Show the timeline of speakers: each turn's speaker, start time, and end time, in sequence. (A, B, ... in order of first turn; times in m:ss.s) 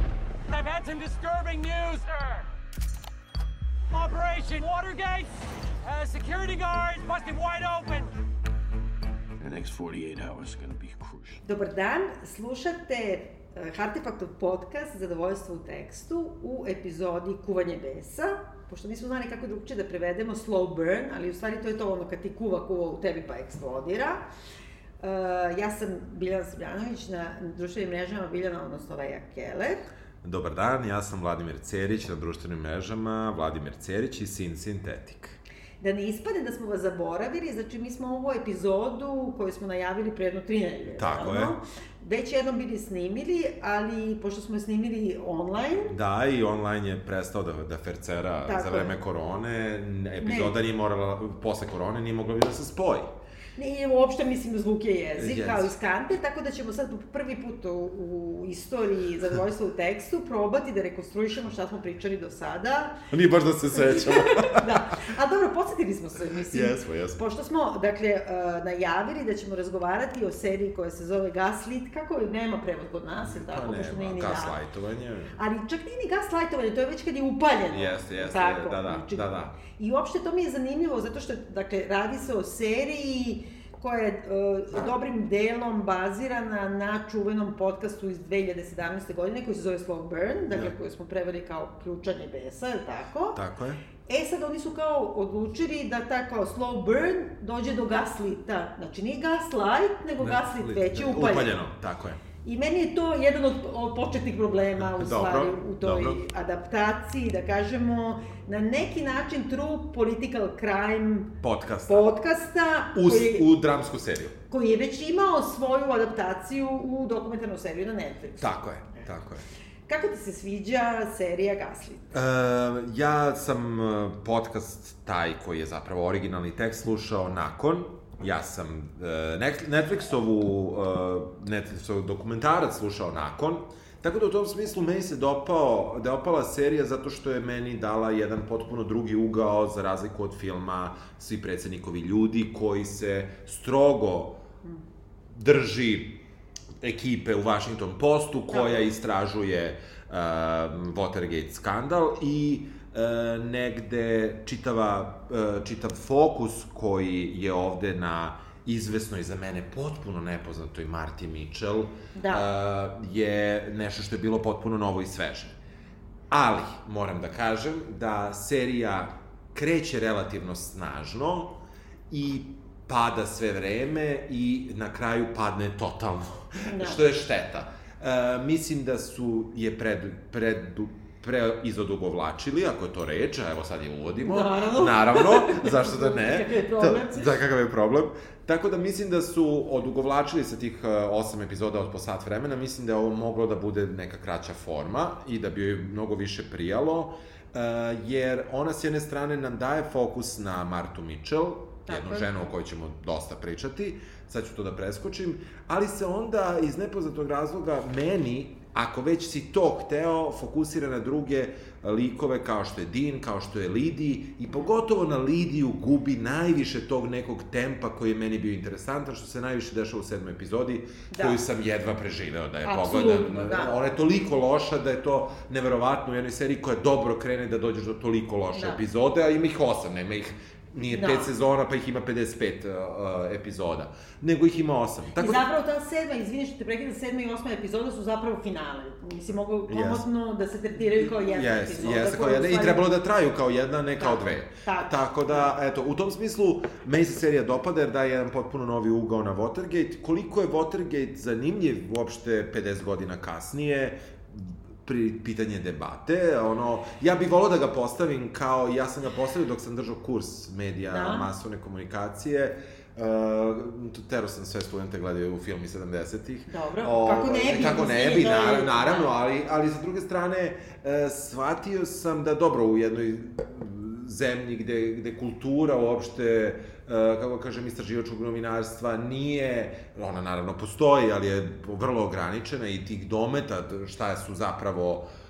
0:00.5-0:02.5 A
0:03.9-0:05.3 A
0:05.8-0:08.1 A
0:09.4-0:11.4 B
0:11.4-0:24.2 C
0:25.0-0:29.9 C
0:30.2-0:35.4 D
0:35.8-0:46.0 C
0:41.0-0:41.6 D
0:45.9-0:53.1 D
0:48.4-0:49.0 C
0:50.2-0:50.6 C
0:53.6-1:03.0 C
0:55.2-0:55.7 D
1:03.1-1:04.8 D
1:03.7-1:14.6 C
1:06.5-1:07.2 D
1:13.2-1:15.4 D
1:15.4-1:33.4 C
1:17.7-1:19.6 D
1:33.4-1:33.8 D
1:34.1-1:41.6 C
1:40.2-1:42.2 D
1:42.4-1:51.4 C
1:44.8-1:46.2 D
1:51.4-1:52.1 D
1:51.9-1:53.5 C
1:52.9-1:54.4 D
1:54.5-1:59.0 C
1:58.4-1:59.4 D
1:59.9-2:02.2 C
2:02.1-2:24.4 D
2:25.3-2:26.2 D
2:26.8-2:45.6 D
2:28.5-2:28.8 C
2:42.2-2:42.5 C
2:46.3-2:51.6 D
2:52.1-3:55.5 D
2:56.6-2:57.0 C
3:04.2-3:07.4 C
3:21.9-3:22.5 C
3:34.5-3:34.7 C
3:41.1-3:41.4 C
3:42.6-3:43.8 C
3:48.5-3:48.8 C
3:50.9-3:51.3 C
3:55.2-4:02.8 C
3:59.7-4:00.1 D
4:01.0-4:45.1 D
4:04.0-4:05.5 C
4:20.9-4:21.3 C
4:26.5-4:29.1 C